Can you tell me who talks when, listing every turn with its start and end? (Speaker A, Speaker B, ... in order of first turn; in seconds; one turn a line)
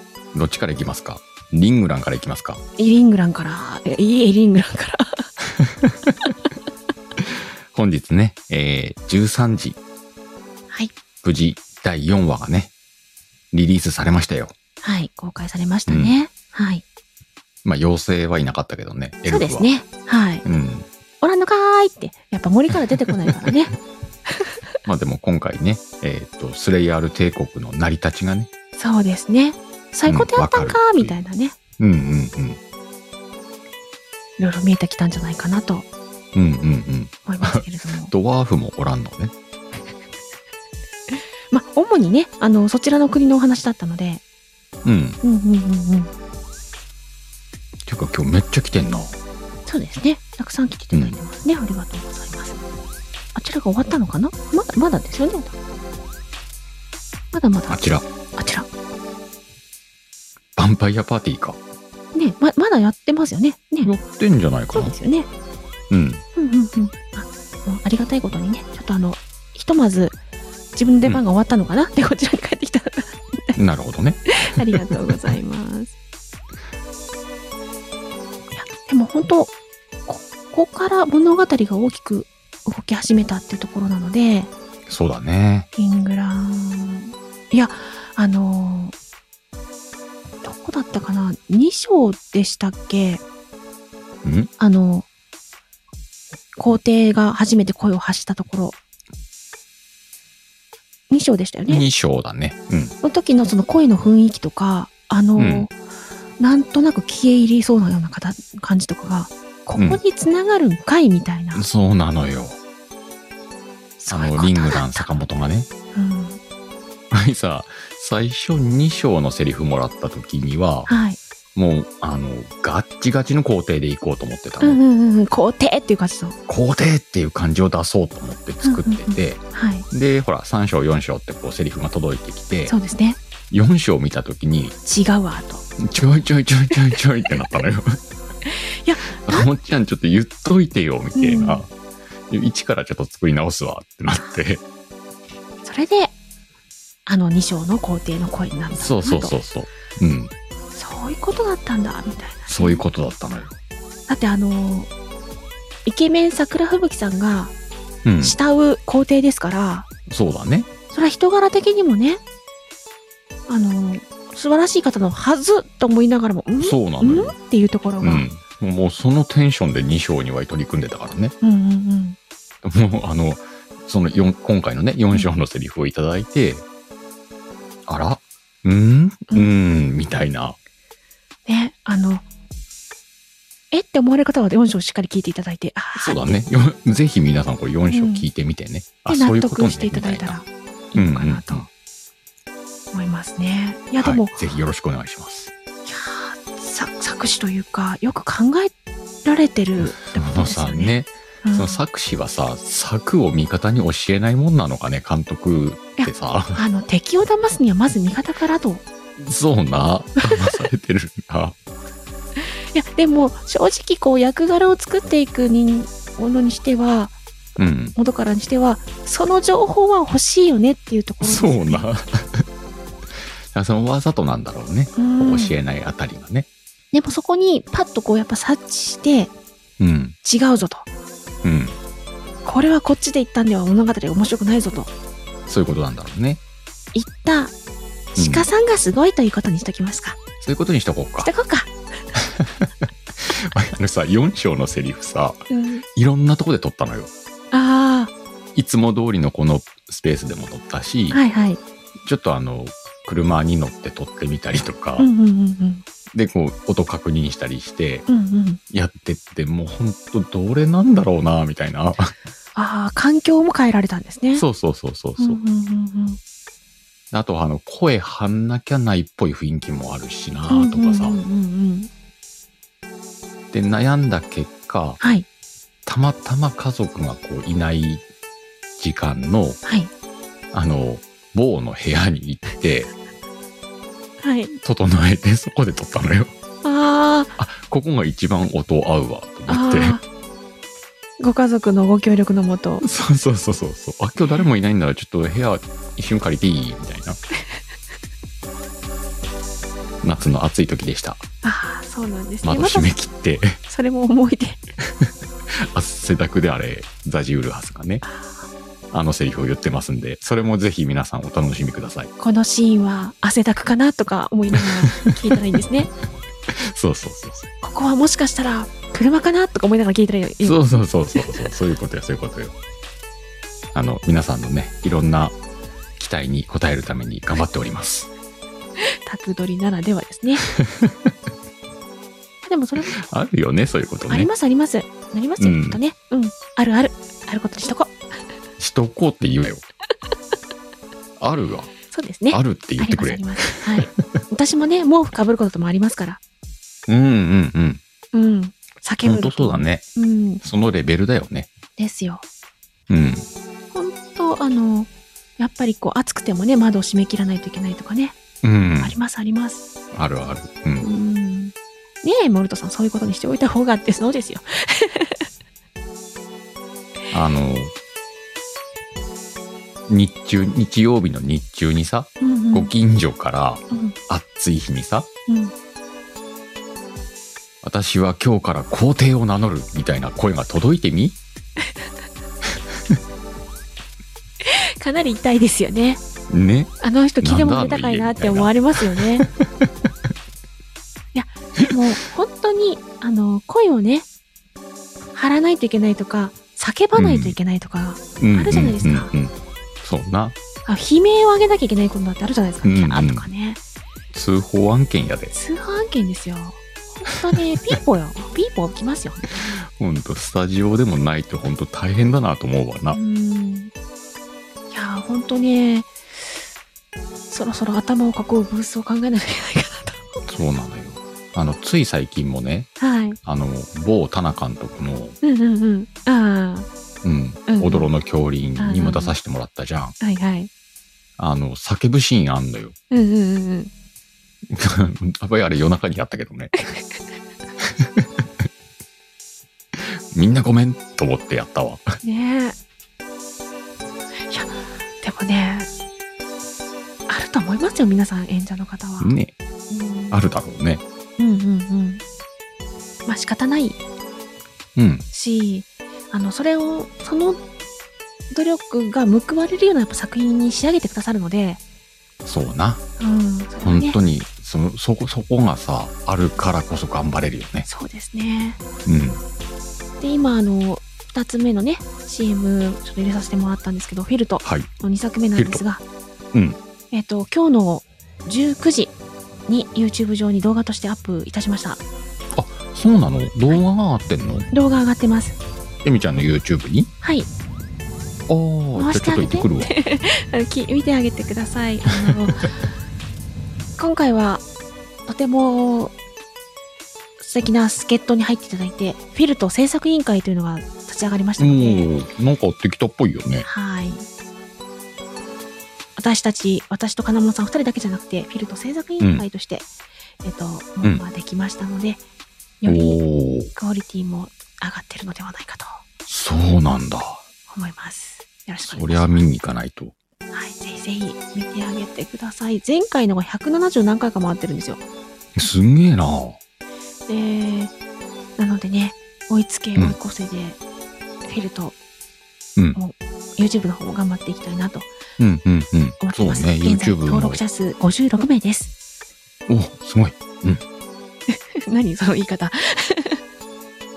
Speaker A: 0.3-2.6
Speaker B: 2.8-5.2
Speaker A: 5.6-6.1
Speaker A: 7.7-9.8
Speaker A: 11.2-12.7
Speaker A: 13.5-14.5
Speaker B: 14.8-16.8
Speaker A: 15.9-16.1
Speaker A: 17.6-19.7
Speaker B: 19.2-20.4
Speaker A: 20.4-20.9
Speaker B: 21.2-23.7
Speaker A: 23.0-23.5
Speaker A: 24.8-28.5
Speaker B: 28.8-31.5
Speaker A: 30.1-31.1
Speaker A: 31.8-32.6
Speaker B: 34.4-35.9
Speaker A: 36.3-39.3
Speaker B: 37.2-38.1
Speaker B: 41.1-44.2
Speaker A: 44.8-45.2
Speaker B: 45.2-46.1
Speaker A: 47.9-49.2
Speaker B: 49.7-52.6
Speaker A: 50.9-51.2
Speaker B: 53.3-55.5
Speaker B: 57.3-58.6
Speaker A: 57.7-58.0
Speaker A: 60.5-61.6
Speaker B: 62.1-63.9
Speaker A: 63.8-64.9
Speaker B: 64.7-65.3
Speaker A: 65.9-66.2
Speaker B: 66.3-70.2
Speaker B: 70.7-73.6
Speaker A: 73.6-75.1
Speaker B: 74.4-75.9
Speaker B: 78.5-79.5
Speaker B: 80.1-84.5
Speaker A: 84.9-85.7
Speaker B: 85.8-88.9
Speaker B: 90.4-93.2
Speaker A: 94.2-94.5
Speaker B: 94.6-95.0
Speaker B: 96.6-98.8
Speaker B: 101.1-101.8
Speaker A: 101.7-102.9
Speaker B: 103.0-105.7
Speaker A: 105.3-105.7
Speaker B: 106.4-111.7
Speaker A: 111.5-112.6
Speaker B: 114.0-115.1
Speaker A: 114.1-115.7
Speaker B: 115.9-116.4
Speaker A: 117.1-120.9
Speaker B: 120.9-121.2
Speaker A: 121.5-124.8
Speaker B: 124.6-126.3
Speaker A: 126.5-132.7
Speaker B: 128.6-129.8
Speaker B: 132.7-133.2
Speaker A: 133.5-134.8
Speaker B: 134.8-135.6
Speaker A: 135.8-138.0
Speaker B: 138.5-139.5
Speaker A: 139.1-141.7
Speaker B: 141.2-141.6
Speaker A: 142.3-144.6
Speaker B: 145.6-146.1
Speaker B: 147.1-149.3
Speaker A: 148.7-150.3
Speaker B: 150.7-152.8
Speaker A: 152.5-153.5
Speaker B: 154.1-154.9
Speaker B: 155.8-157.5
Speaker A: 158.0-158.4
Speaker B: 158.2-159.9
Speaker A: 160.1-160.7
Speaker B: 160.9-162.2
Speaker B: 163.5-168.2
Speaker A: 166.6-167.3
Speaker A: 168.0-171.3
Speaker B: 171.4-172.2
Speaker A: 172.6-176.6
Speaker A: 177.9-180.6
Speaker B: 181.4-182.2
Speaker B: 183.7-186.3
Speaker A: 185.9-190.3
Speaker B: 187.9-188.2
Speaker B: 189.1-191.7
Speaker A: 190.9-191.7
Speaker B: 192.9-194.4
Speaker A: 194.0-195.5
Speaker B: 195.8-198.7
Speaker B: 199.2-200.9
Speaker A: 199.8-206.6
Speaker B: 201.4-201.8
Speaker B: 206.0-208.8
Speaker A: 209.2-211.5
Speaker B: 212.7-217.1
Speaker A: 217.6-217.9
Speaker B: 217.9-221.8
Speaker A: 221.2-222.4
Speaker A: 223.5-226.5
Speaker B: 224.9-225.5
Speaker B: 226.9-229.3
Speaker A: 229.8-230.1
Speaker B: 230.2-230.9
Speaker A: 231.4-231.8
Speaker B: 232.4-234.9
Speaker A: 235.5-236.4
Speaker B: 236.9-237.5
Speaker B: 238.1-240.2
Speaker A: 238.2-238.5
Speaker A: 240.4-241.3
Speaker B: 241.2-241.7
Speaker A: 242.2-242.7
Speaker A: 243.2-245.4
Speaker B: 245.5-245.8
Speaker A: 245.9-247.1
Speaker B: 247.5-248.1
Speaker A: 248.5-251.2
Speaker B: 251.1-251.6
Speaker A: 252.0-255.1
Speaker B: 255.0-255.8
Speaker A: 256.1-258.1
Speaker B: 258.1-258.6
Speaker A: 258.7-262.1
Speaker B: 262.6-264.4
Speaker A: 264.3-265.4
Speaker B: 265.2-266.2
Speaker A: 267.1-271.2
Speaker B: 270.5-271.9
Speaker A: 273.5-275.0
Speaker B: 275.0-275.2
Speaker A: 275.9-278.0
Speaker A: 278.8-279.6
Speaker B: 279.6-279.9
Speaker A: 280.5-282.9
Speaker B: 284.2-284.5
Speaker A: 284.6-286.3
Speaker B: 286.6-287.3
Speaker A: 287.4-290.0
Speaker B: 289.5-290.0
Speaker B: 291.2-292.8
Speaker A: 292.8-297.2
Speaker A: 300.0-301.2
Speaker B: 301.4-302.9
Speaker A: 302.4-303.6
Speaker B: 303.7-304.6
Speaker A: 305.0-308.0
Speaker B: 308.0-308.5
Speaker A: 308.9-312.1
Speaker B: 312.2-315.9
Speaker A: 314.5-314.9
Speaker A: 316.5-317.5
Speaker B: 317.6-321.3
Speaker A: 320.4-322.5
Speaker A: 323.7-325.4
Speaker A: 326.0-328.1
Speaker B: 328.8-330.5
Speaker A: 330.5-331.1
Speaker B: 332.4-333.0
Speaker A: 332.9-334.3
Speaker B: 334.1-337.9
Speaker A: 335.4-335.8
Speaker A: 338.6-339.6
Speaker A: 341.2-341.7
Speaker B: 341.9-346.2
Speaker A: 342.3-343.9
Speaker A: 346.9-347.8
Speaker B: 348.1-350.4
Speaker A: 349.0-349.8
Speaker A: 350.4-351.5
Speaker B: 351.8-352.2
Speaker A: 352.9-353.3
Speaker B: 353.7-358.1
Speaker A: 358.4-358.9
Speaker B: 358.8-359.6
Speaker A: 359.9-360.9
Speaker B: 360.8-365.2
Speaker A: 367.1-367.7
Speaker A: 369.9-375.1
Speaker B: 372.2-372.7
Speaker B: 373.7-373.9
Speaker A: 377.6-381.2
Speaker B: 384.4-386.0
Speaker A: 386.3-389.7
Speaker B: 386.8-389.3
Speaker B: 391.1-394.1
Speaker B: 395.1-399.1
Speaker A: 396.9-397.4
Speaker A: 398.2-400.4
Speaker B: 400.6-403.6
Speaker A: 402.6-403.3
Speaker A: 404.1-405.3
Speaker B: 405.3-409.6
Speaker A: 409.6-413.0
Speaker B: 412.9-413.7
Speaker B: 414.7-415.9
Speaker B: 417.3-420.2
Speaker A: 420.3-422.7
Speaker B: 422.8-423.2
Speaker A: 423.2-425.2
Speaker B: 425.2-426.7
Speaker A: 427.0-429.9
Speaker B: 427.5-427.9
Speaker B: 428.6-429.1
Speaker B: 430.0-430.5
Speaker A: 431.2-432.8
Speaker B: 432.9-433.7
Speaker A: 434.5-436.7
Speaker A: 437.8-438.1
Speaker A: 439.8-441.9
Speaker B: 442.0-442.6
Speaker B: 444.3-445.7
Speaker B: 447.1-449.2
Speaker A: 449.0-449.3
Speaker B: 449.7-450.2
Speaker A: 450.1-450.8
Speaker B: 451.2-452.0
Speaker B: 453.1-453.8
Speaker A: 454.8-455.1
Speaker B: 455.1-457.4
Speaker B: 458.3-461.6
Speaker A: 462.2-462.8
Speaker B: 463.0-464.0
Speaker A: 463.6-467.7
Speaker B: 467.6-468.6
Speaker A: 468.8-469.2
Speaker B: 470.0-475.8
Speaker A: 474.4-474.7
Speaker A: 475.3-475.6
Speaker A: 476.3-476.6
Speaker B: 476.9-478.9
Speaker B: 479.5-481.8
Speaker A: 482.3-484.5
Speaker B: 484.5-485.4
Speaker A: 485.8-486.9
Speaker B: 487.0-487.3
Speaker A: 488.3-489.7
Speaker B: 488.8-492.5
Speaker A: 491.9-492.3
Speaker B: 493.8-494.4
Speaker B: 495.1-495.9
Speaker B: 497.2-501.9
Speaker A: 501.4-503.4
Speaker B: 503.4-504.1
Speaker B: 506.0-509.7
Speaker A: 509.0-509.2
Speaker B: 510.2-512.0
Speaker B: 512.6-515.8
Speaker A: 512.6-513.5
Speaker A: 516.1-517.2
Speaker B: 517.5-519.2
Speaker A: 518.6-519.9
Speaker B: 520.3-524.8
Speaker A: 525.4-526.4
Speaker B: 527.1-527.7
Speaker B: 528.4-530.6
Speaker B: 531.2-531.8
Speaker B: 532.7-534.9
Speaker A: 535.2-537.4
Speaker B: 536.0-538.7
Speaker A: 539.5-540.6
Speaker B: 541.3-543.2